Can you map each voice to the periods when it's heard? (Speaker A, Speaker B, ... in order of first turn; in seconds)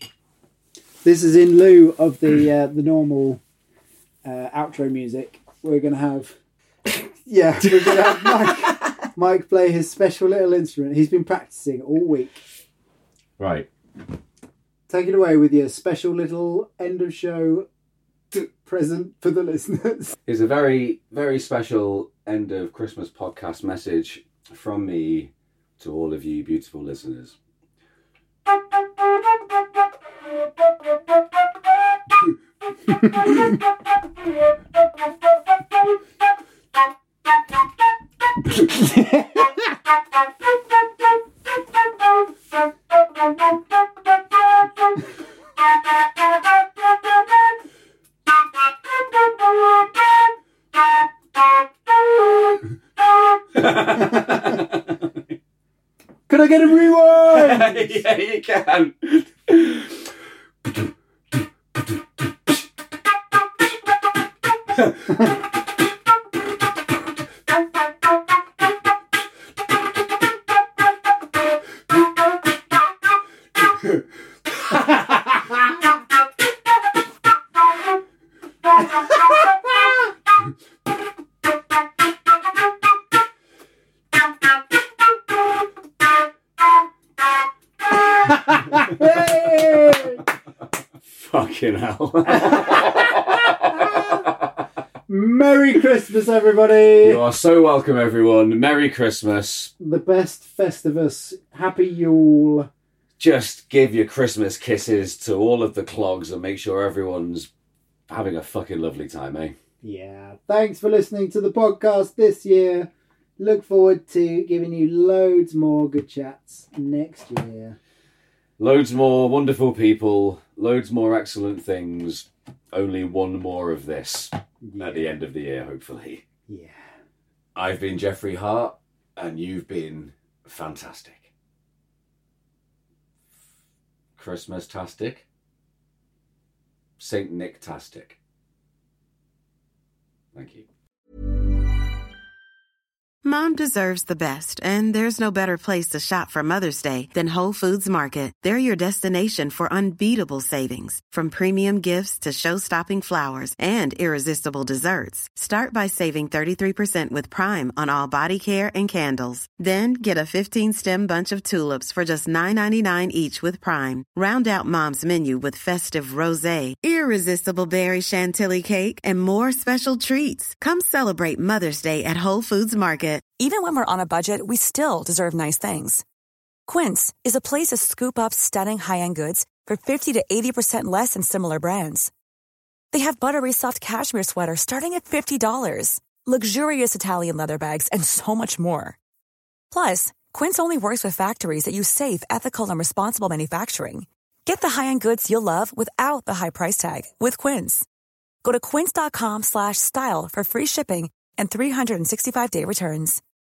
Speaker A: 1.0-3.4, 4.2-12.4, 14.9-17.7, 18.3-20.2, 33.0-33.4, 38.5-39.7, 54.0-54.6, 56.3-58.0, 88.1-90.2, 92.3-94.3, 95.1-97.2, 99.8-102.7, 109.8-117.8, 124.6-125.1, 126.5-126.9
Speaker B: 13.4-13.7, 20.3-27.4, 53.5-55.0, 57.2-60.0, 91.2-94.3, 97.0-99.7, 103.2-107.5, 108.1-109.5, 118.6-126.2, 127.5-131.3, 134.2-135.2, 137.0-138.2, 140.3-140.7
Speaker C: 143.2-173.3
Speaker D: 173.4-176.0, 176.7-182.1, 182.9-188.9, 189.7-197.8, 198.4-203.2